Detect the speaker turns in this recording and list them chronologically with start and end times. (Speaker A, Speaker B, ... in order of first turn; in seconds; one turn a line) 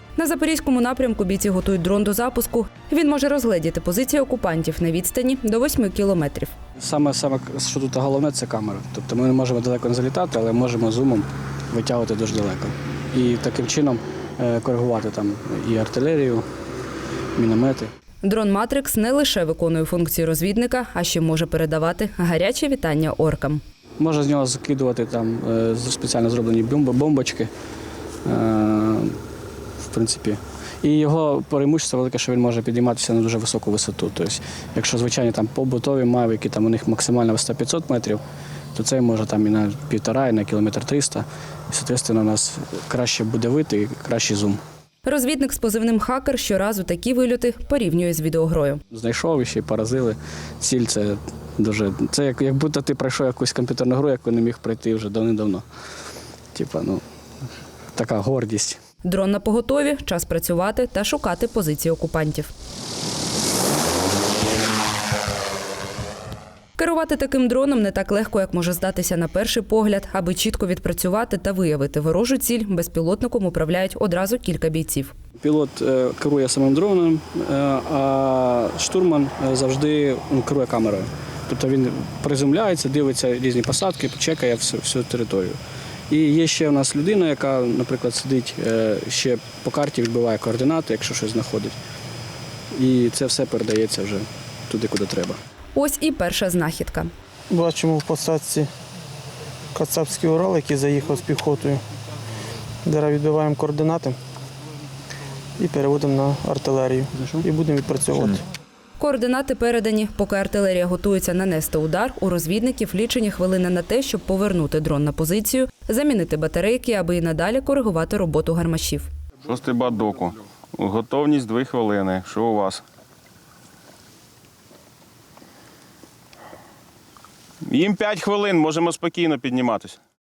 Speaker A: 0.1-6.5
Speaker B: 6.8-16.4
Speaker B: 17.4-17.9
Speaker A: 18.2-23.6
Speaker B: 24.0-27.5
Speaker B: 28.2-29.2
Speaker B: 29.8-38.2
Speaker B: 38.7-44.6
Speaker A: 45.0-48.8
Speaker B: 48.9-55.6
Speaker B: 56.5-57.0
Speaker B: 57.9-58.8
Speaker A: 59.0-62.5
Speaker A: 66.8-75.1
Speaker B: 75.4-85.6
Speaker B: 86.1-91.8
Speaker B: 92.7-95.4
Speaker A: 95.7-97.1
Speaker C: 97.5-98.7
Speaker C: 99.7-101.8
Speaker C: 102.8-104.2
Speaker C: 105.6-108.4
Speaker B: 107.2-107.4
Speaker A: 109.0-119.1
Speaker D: 119.4-122.8
Speaker D: 127.7-130.0